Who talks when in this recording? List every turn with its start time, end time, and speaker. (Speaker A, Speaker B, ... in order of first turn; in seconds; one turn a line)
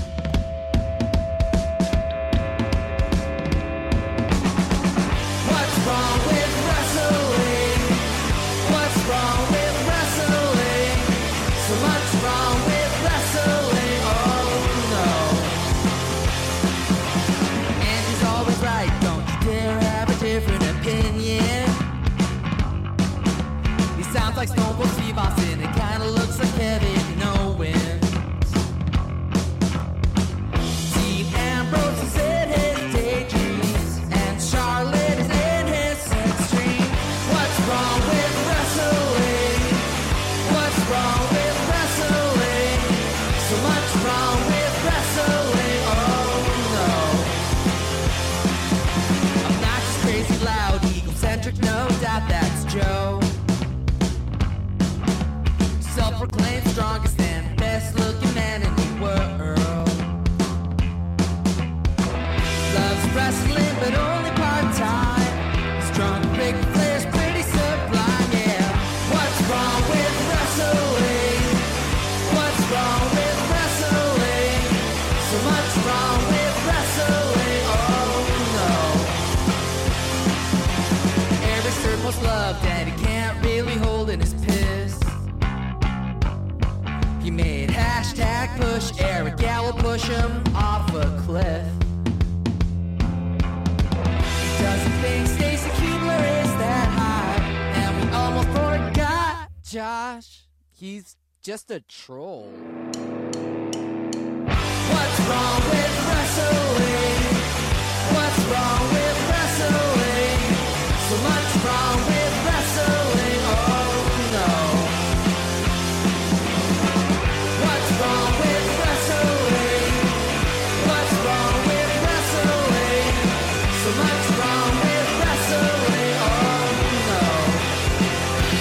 Speaker A: 5.4-15.6
Speaker A: 17.8-21.8
Speaker A: 23.9-28.4
Speaker A: 30.8-39.9
Speaker A: 40.4-47.4
Speaker A: 49.4-53.3
Speaker A: 55.8-60.1
Speaker A: 62.6-71.6
Speaker A: 72.2-79.2
Speaker A: 81.4-85.2
Speaker A: 87.2-91.8
Speaker A: 94.4-102.7
Speaker A: 104.8-107.5
Speaker A: 108.0-115.0
Speaker A: 117.5-120.2
Speaker A: 120.8-127.7